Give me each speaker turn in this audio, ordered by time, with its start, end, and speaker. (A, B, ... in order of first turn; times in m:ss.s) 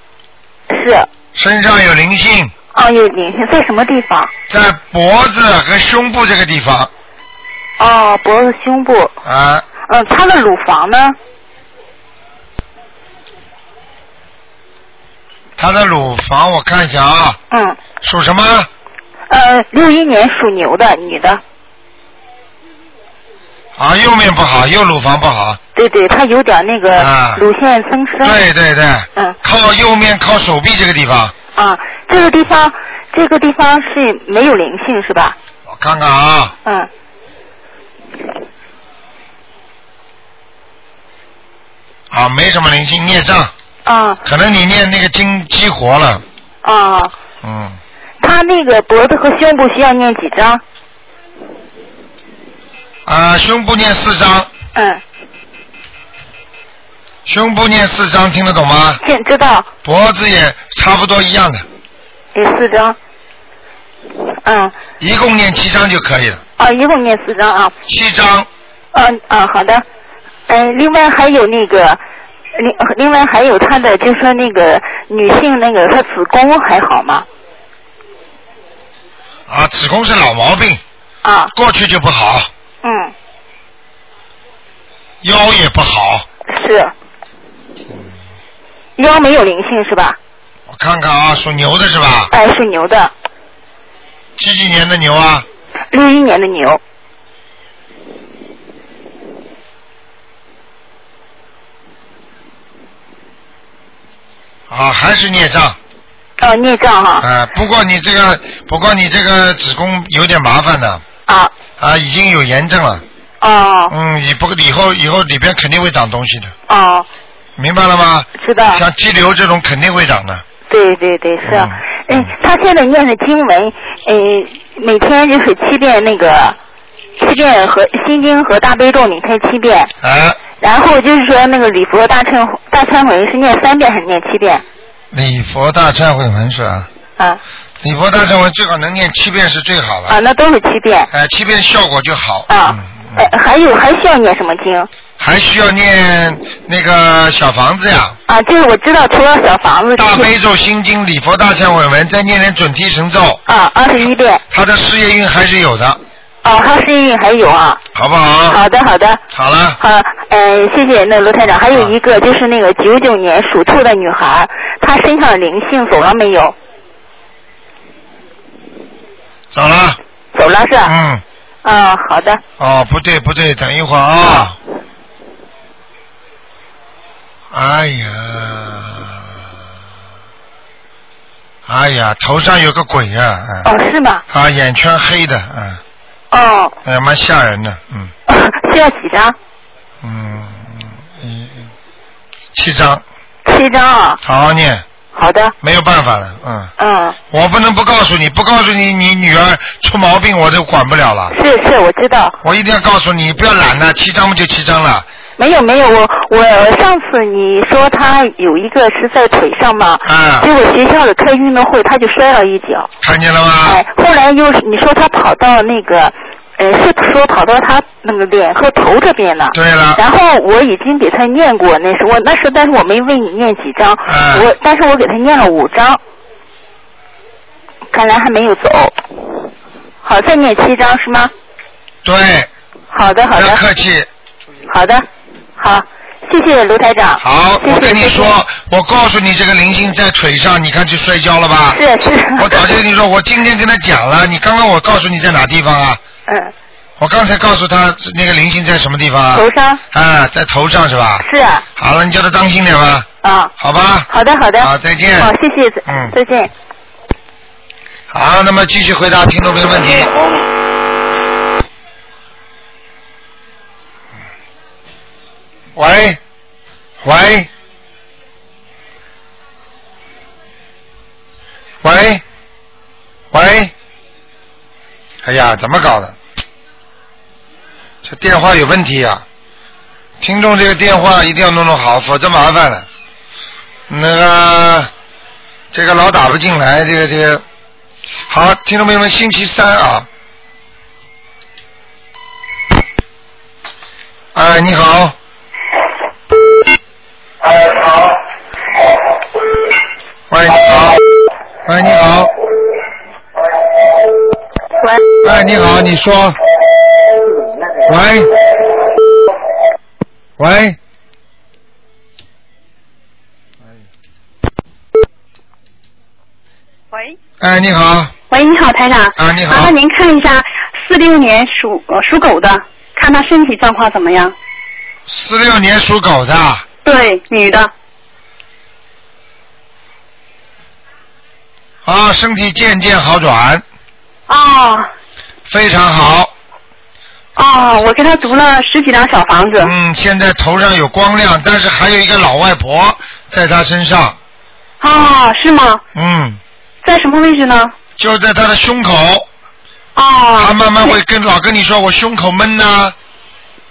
0:00.7-0:01.1 A
0:01.3-0:02.5 B
0:02.7-0:04.3 A
0:04.5-0:06.9 B
0:07.8-0:09.1 A
0:09.2-0:09.6 B
0:09.9-0:11.2 A
0:15.6-0:17.4 B
0:17.5-0:17.8 A
0:18.0-0:18.7 B
0:19.3-0:21.4 A
0:23.8-0:25.6 B
0:25.7-0:28.4 A
0:26.9-0:27.4 B
0:28.2-0:31.3 B
0:31.5-0:35.4 A
0:35.7-0:36.5 B
0:42.1-0:43.5 B
0:43.8-0:44.2 A
0:44.2-0:46.2 B
0:46.6-0:47.1 A
0:47.4-0:47.8 B
0:48.2-0:50.6 A
0:53.0-0:54.5 B
0:54.7-0:55.0 A
0:57.2-0:59.0 B
0:59.0-0:59.7 A
0:59.8-1:01.6 B
1:02.3-1:03.0 A
1:04.4-1:04.7 A
1:05.0-1:06.4 B
1:06.6-1:07.7 A
1:07.9-1:08.5 B
1:08.9-1:09.8 A
1:10.5-1:12.0 A
1:12.5-1:17.2 A
1:19.5-1:20.8 B
1:21.2-1:21.5 A
1:21.5-1:22.5 B
1:22.8-1:23.1 A
1:25.2-1:26.2 B
1:26.5-1:26.9 A
1:29.0-1:30.2 A
1:30.7-1:32.3 B
1:32.3-1:33.1 A
1:34.4-1:35.4 B
1:35.9-1:36.8 A
1:44.7-1:45.8 B
1:46.4-1:47.2 A
1:47.2-1:51.0 B
1:51.3-1:51.5 A
1:51.8-1:53.0 B
1:53.4-1:53.9 A
1:53.9-1:56.5 B
1:56.7-1:57.1 A
1:57.6-2:00.4 B
1:58.4-1:58.8 A
2:00.7-2:06.6 A
2:01.4-2:02.3 B
2:07.2-2:09.9 A
2:10.0-2:10.4 B
2:10.6-2:14.6 A
2:15.1-2:16.9 B
2:17.8-2:20.2 B
2:20.1-2:21.1 A
2:21.1-2:23.3 B
2:22.5-2:24.9 A
2:25.2-2:28.2 B
2:28.3-2:30.3 A
2:30.0-2:33.4 B
2:33.5-2:34.4 A
2:34.5-2:36.0 B
2:36.4-2:37.8 A
2:37.9-2:38.6 B
2:38.5-2:39.2 A
2:39.3-2:39.8 B
2:39.8-2:46.5 A
2:41.6-2:41.9 B
2:49.5-2:50.0 B
2:50.3-2:50.9 A
2:50.8-2:51.2 B
2:51.6-2:52.4 A
2:52.6-2:54.6 B
2:57.5-2:59.2 B
3:01.7-3:03.7 B
3:03.6-3:04.2 A
3:04.3-3:05.8 B
3:06.3-3:06.7 A
3:06.8-3:08.1 B
3:08.3-3:09.4 A
3:10.0-3:11.6 B
3:12.5-3:13.0 B
3:13.4-3:14.2 A
3:14.2-3:14.8 B
3:15.1-3:15.5 A
3:15.6-3:16.7 B
3:16.8-3:17.2 A
3:17.3-3:21.3 B
3:21.3-3:22.4 A
3:22.4-3:25.0 B
3:25.4-3:32.9 A
3:30.0-3:30.5 B
3:33.0-3:33.8 B
3:33.6-3:46.0 A
3:39.5-3:40.0 B
3:44.0-3:44.5 B
3:47.9-3:49.5 A
3:50.0-3:51.3 A
3:52.0-3:52.5 B
3:52.9-3:53.6 A
3:53.3-3:54.1 B
3:54.7-3:55.0 A
3:55.6-3:58.3 A
3:57.2-4:01.8 B
4:01.7-4:02.7 A
4:02.4-4:06.0 B
4:06.3-4:06.5 A
4:07.0-4:11.2 B
4:09.3-4:09.8 A
4:11.2-4:11.6 A
4:11.8-4:13.1 B
4:13.2-4:13.5 A
4:13.6-4:15.3 B
4:14.1-4:16.5 A
4:15.9-4:16.1 B
4:18.1-4:20.1 B
4:25.7-4:26.2 B
4:27.0-4:27.5 B
4:31.8-4:32.2 B
4:33.3-4:33.7 B
4:35.2-4:36.1 B
4:38.0-4:39.2 B
4:40.2-4:42.9 B
4:43.9-4:44.9 B
4:45.7-4:47.4 B
4:48.3-4:50.1 B
4:54.3-4:55.1 B
5:00.3-5:01.0 B
5:01.6-5:02.3 B
5:05.2-5:06.4 B
5:07.8-5:08.3 B
5:10.4-5:10.8 B
5:17.4-5:18.1 B
5:18.3-5:24.3 C
5:19.2-5:19.7 B
5:25.1-5:26.6 B
5:26.8-5:27.7 C
5:31.8-5:33.6 B
5:34.3-5:34.9 C
5:35.5-5:36.3 B
5:37.4-5:39.7 C
5:39.6-5:44.2 B
5:44.8-5:45.8 C
5:45.9-5:46.4 B
5:46.8-5:47.7 C
5:48.0-5:49.3 B
5:50.0-5:50.9 C
5:50.4-5:52.9 B